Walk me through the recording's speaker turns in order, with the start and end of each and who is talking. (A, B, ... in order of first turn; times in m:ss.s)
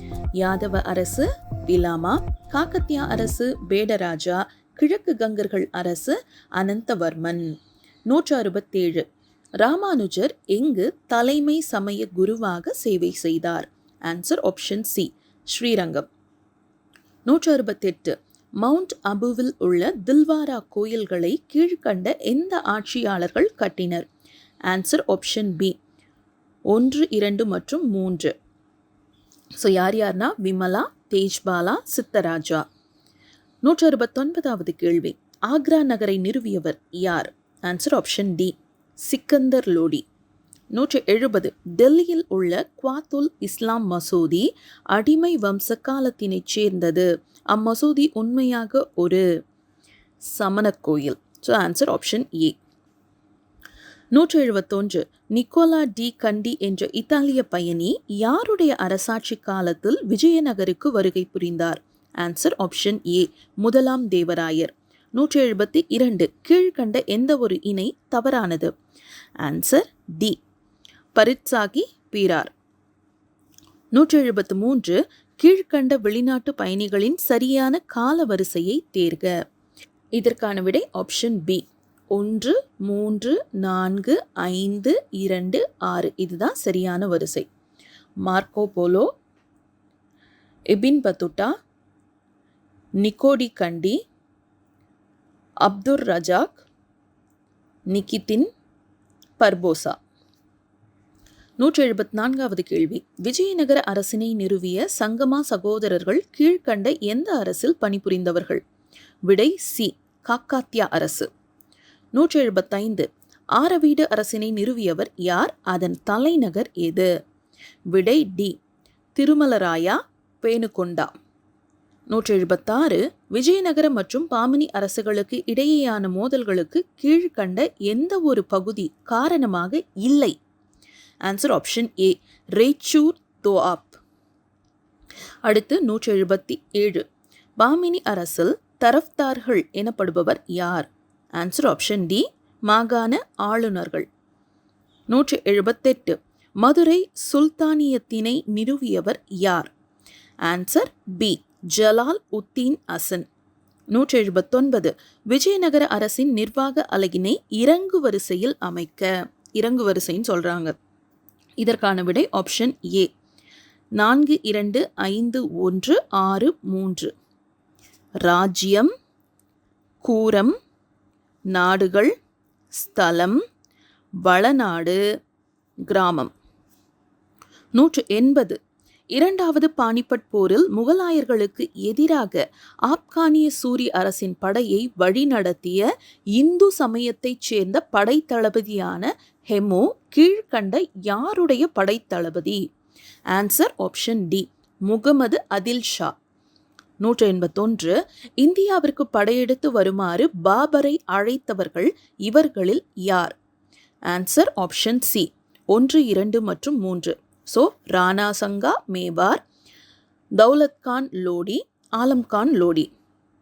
0:00.4-0:07.5 A
0:08.1-0:09.0 A
0:09.6-0:16.1 A
0:17.3-0:24.1 A
0:24.7-0:25.7 A
0:26.7-0:28.3 A
0:29.6-0:32.6 A
0:33.6-0:40.0 A
0:40.7-0:49.2 A
0:50.3-0:52.6 A
0:54.1-1:08.7 A
1:09.4-1:10.4 A
1:11.2-1:12.5 A
1:13.9-1:19.3 A
1:20.2-1:27.5 A
1:28.2-1:29.1 A
1:30.7-1:31.5 A
1:33.0-1:34.0 A
1:35.6-1:36.6 A
1:37.9-1:38.5 A
1:39.4-1:40.0 A
1:41.6-1:48.6 A
1:49.3-1:51.3 A
1:52.2-1:57.1 A
1:57.9-1:58.6 A
1:59.2-2:01.1 A
2:02.1-2:10.4 A
2:11.2-2:14.0 A
2:15.5-2:17.0 A
2:17.6-2:24.1 A
2:25.1-2:29.7 A
2:30.4-2:33.2 A
2:33.9-2:40.8 A
2:41.6-2:43.1 A
2:44.0-2:47.1 A
2:48.2-2:48.9 A
2:50.0-2:50.6 A
2:51.5-2:52.1 A
2:52.7-2:53.4 A
2:54.2-2:55.0 A
2:55.9-2:56.3 A
2:57.8-2:58.6 A
2:59.1-3:12.6 A
3:13.3-3:16.1 A
3:17.0-3:23.3 A
3:24.1-3:29.4 A
3:30.4-3:32.9 A